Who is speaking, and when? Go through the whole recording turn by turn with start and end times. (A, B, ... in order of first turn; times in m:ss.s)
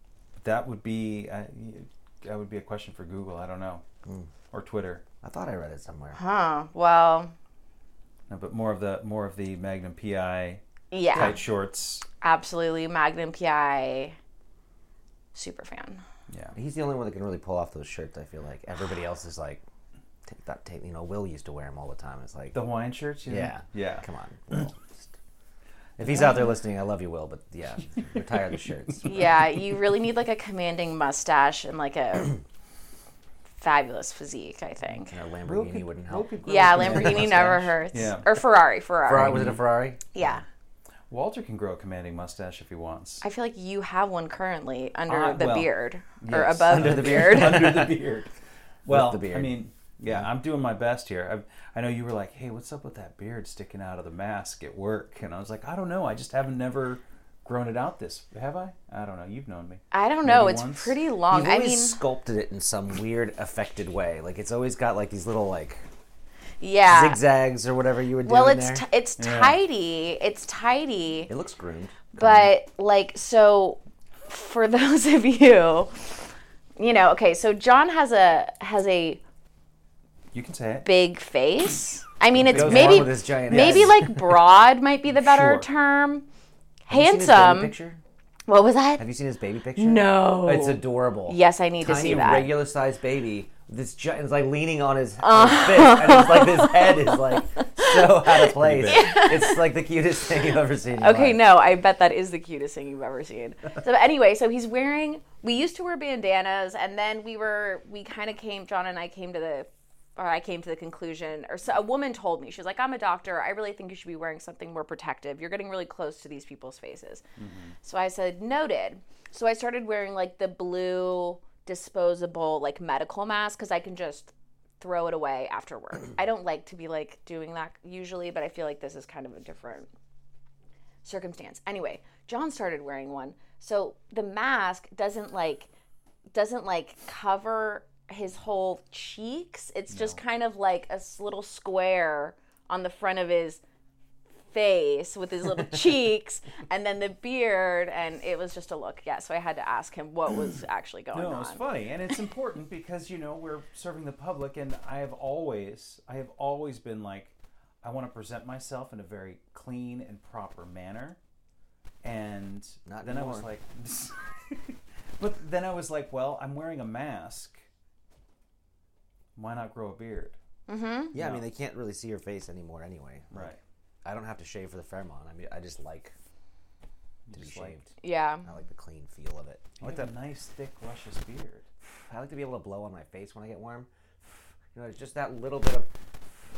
0:00.4-0:03.8 A
0:04.0-0:04.3 B
0:04.5-0:05.0 A
0:05.2-0:06.2 B
0:06.1-0:07.3 C
0:08.3-0:10.6 A
0:10.9-0:11.4 C
0:11.1-0:11.4 B
0:11.1-0:12.0 A
0:12.2-0:14.2 C
0:15.3-0:16.0 C
0:16.3-0:16.5 A
0:16.5-0:19.6 B
0:20.2-0:22.6 B
0:22.5-0:24.0 A
0:23.3-0:25.1 B
0:26.0-0:26.4 A
0:26.0-0:29.4 B
0:29.0-0:32.4 C
0:33.6-0:35.1 C
0:35.0-0:37.6 B
0:35.4-0:38.4 A
0:36.4-0:39.5 C
0:39.1-0:40.1 B
0:39.1-0:39.6 A
0:40.1-0:40.4 C
0:41.1-0:43.2 A
0:43.2-0:47.8 C
0:45.1-0:48.3 A
0:46.3-0:48.0 B
0:48.8-1:01.0 A
0:48.9-0:50.2 B
0:59.9-1:02.0 C
1:01.3-1:05.8 B
1:06.6-1:07.2 C
1:06.8-1:08.8 B
1:08.2-1:11.3 C
1:09.2-1:09.6 A
1:11.3-1:12.5 B
1:12.1-1:19.2 C
1:20.3-1:20.9 A
1:20.8-1:26.3 C
1:22.3-1:24.1 A
1:22.4-1:24.2 B
1:25.1-1:25.7 A
1:26.8-1:27.7 C
1:26.9-1:28.0 B
1:28.5-1:29.0 C
1:29.0-1:41.4 B
1:29.8-1:32.6 C
1:35.2-1:39.7 C
1:38.5-1:39.2 A
1:41.0-1:57.2 C
1:57.4-1:57.8 A
1:57.8-2:09.9 C
2:11.0-2:15.7 C
2:16.3-2:23.6 C
2:19.9-2:20.2 A
2:24.5-2:31.6 C
2:31.1-2:41.2 A
2:42.0-2:47.6 A
2:42.8-2:43.5 B
2:49.4-2:50.4 A
2:50.7-2:51.1 C
2:51.1-2:51.4 A
2:51.1-2:56.1 B
2:53.3-2:53.6 A
2:57.3-2:57.8 A
2:57.3-2:57.9 B
2:58.0-2:58.5 C
2:58.4-3:00.1 B
2:59.8-3:01.7 A
3:01.8-3:05.9 B